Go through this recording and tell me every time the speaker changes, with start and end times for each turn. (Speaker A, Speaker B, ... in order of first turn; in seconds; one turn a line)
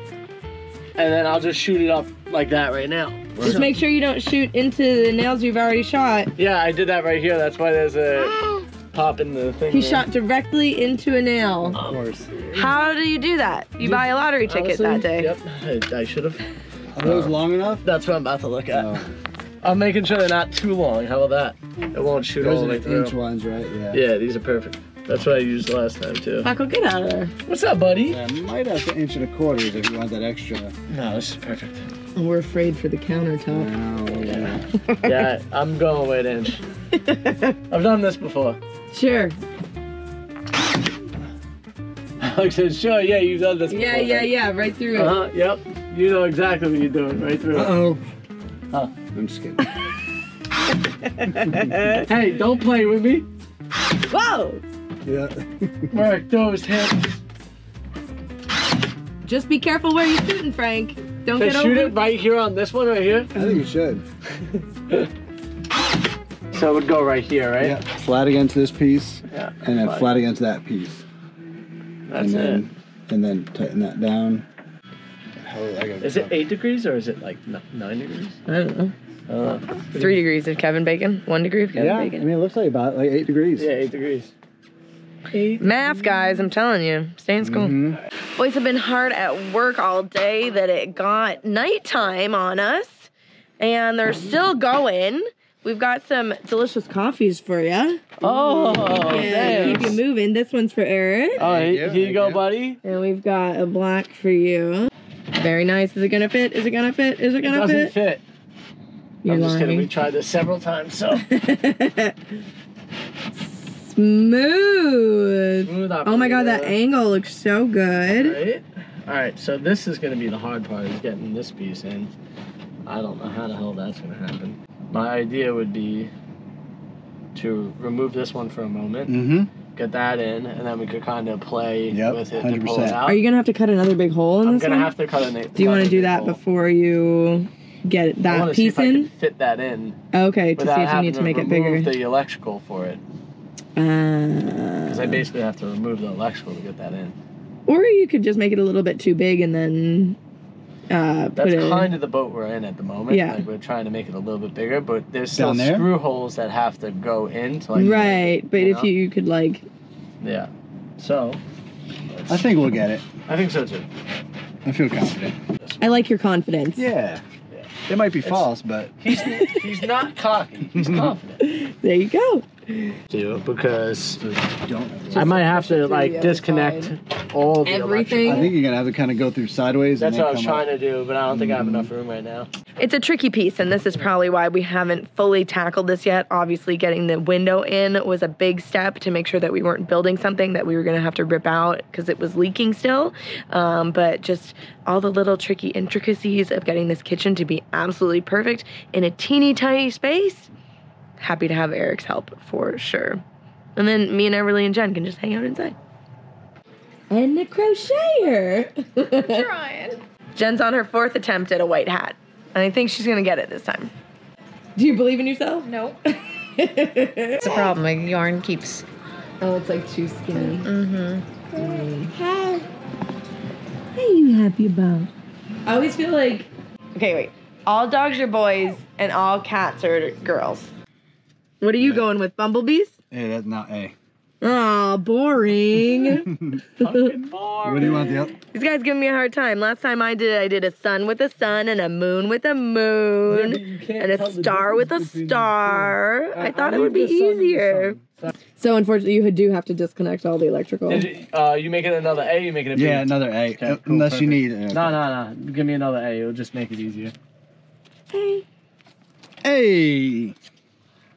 Speaker A: 1.0-3.6
Speaker B: 3.4-3.7
Speaker C: 3.4-6.3
Speaker A: 6.4-10.1
Speaker C: 9.7-11.8
Speaker B: 11.7-12.3
Speaker A: 11.8-12.8
Speaker C: 12.5-15.3
Speaker A: 13.8-16.4
Speaker B: 16.9-17.9
Speaker A: 17.0-19.0
Speaker B: 18.7-19.1
Speaker A: 19.6-23.1
Speaker B: 22.4-24.0
Speaker A: 23.9-26.5
Speaker C: 26.4-27.3
Speaker A: 27.5-28.2
Speaker B: 28.1-30.8
Speaker A: 30.9-31.8
Speaker C: 32.2-33.7
Speaker B: 33.5-34.6
Speaker A: 34.2-36.6
Speaker C: 34.9-35.3
Speaker C: 37.0-37.5
Speaker A: 37.7-38.6
Speaker C: 38.9-39.4
Speaker A: 42.2-44.3
Speaker C: 43.7-45.1
Speaker A: 45.0-47.9
Speaker B: 47.5-48.0
Speaker B: 49.1-49.7
Speaker C: 51.2-52.0
Speaker B: 51.3-51.8
Speaker A: 52.1-53.3
Speaker C: 54.1-54.6
Speaker B: 55.0-55.9
Speaker A: 55.9-57.1
Speaker C: 59.2-62.0
Speaker A: 61.4-63.3
Speaker B: 63.3-64.0
Speaker A: 64.4-65.1
Speaker A: 66.5-67.8
Speaker B: 67.6-71.0
Speaker A: 69.3-70.1
Speaker A: 72.1-72.6
Speaker B: 72.2-74.5
Speaker B: 75.4-76.4
Speaker A: 76.0-78.4
Speaker C: 78.5-78.9
Speaker A: 79.3-80.2
Speaker C: 79.9-82.2
Speaker B: 81.7-83.7
Speaker A: 83.6-84.3
Speaker A: 85.3-85.7
Speaker C: 85.6-87.8
Speaker B: 87.4-88.0
Speaker C: 88.4-101.4
Speaker A: 98.2-100.0
Speaker D: 99.0-99.8
Speaker A: 101.4-102.8
Speaker B: 101.4-102.4
Speaker C: 102.8-107.9
Speaker A: 107.4-108.2
Speaker C: 109.2-109.9
Speaker A: 109.2-111.3
Speaker C: 111.2-112.2
Speaker C: 113.5-118.4
Speaker A: 115.6-116.8
Speaker A: 118.2-122.1
Speaker A: 122.8-126.1
Speaker A: 127.3-129.2
Speaker B: 129.1-129.5
Speaker A: 129.8-133.2
Speaker B: 131.9-133.0
Speaker C: 133.1-134.9
Speaker A: 134.4-136.4
Speaker C: 135.6-139.1
Speaker A: 138.3-140.0
Speaker C: 140.1-141.9
Speaker A: 140.6-143.0
Speaker C: 143.8-145.2
Speaker A: 144.9-147.2
Speaker C: 147.7-150.2
Speaker C: 150.9-151.9
Speaker A: 151.4-158.9
Speaker C: 153.1-153.4
Speaker B: 155.3-155.9
Speaker C: 157.8-159.7
Speaker A: 160.2-161.4
Speaker A: 162.1-162.4
Speaker B: 162.3-163.1
Speaker A: 163.3-163.9
Speaker B: 164.7-165.4
Speaker A: 165.6-166.0
Speaker C: 165.8-166.9
Speaker B: 166.8-167.2
Speaker B: 167.9-168.9
Speaker A: 168.2-168.5
Speaker A: 169.0-171.4
Speaker C: 169.3-169.6
Speaker B: 170.7-171.1
Speaker C: 171.4-173.0
Speaker A: 173.1-174.2
Speaker B: 174.2-175.4
Speaker C: 175.1-176.9
Speaker A: 175.2-178.5
Speaker C: 177.6-178.5
Speaker B: 178.2-180.7
Speaker A: 180.0-182.5
Speaker B: 181.3-181.9
Speaker C: 182.8-200.5
Speaker C: 201.2-203.2
Speaker C: 203.8-205.8
Speaker C: 207.1-209.5
Speaker D: 209.1-210.0
Speaker C: 210.3-213.9
Speaker C: 214.8-217.7
Speaker D: 217.4-218.8
Speaker C: 219.4-220.7
Speaker D: 220.4-221.2
Speaker C: 221.5-222.7
Speaker C: 223.9-225.1
Speaker C: 225.7-230.7
Speaker C: 231.6-232.9
Speaker B: 233.1-233.9
Speaker C: 234.4-236.3
Speaker B: 236.3-236.6
Speaker A: 236.8-238.3
Speaker C: 236.8-237.1
Speaker B: 237.6-238.4
Speaker C: 238.5-248.0
Speaker A: 243.3-248.3
Speaker C: 248.6-251.1
Speaker A: 250.9-257.1
Speaker B: 252.7-255.0
Speaker C: 258.1-258.4
Speaker B: 259.4-260.4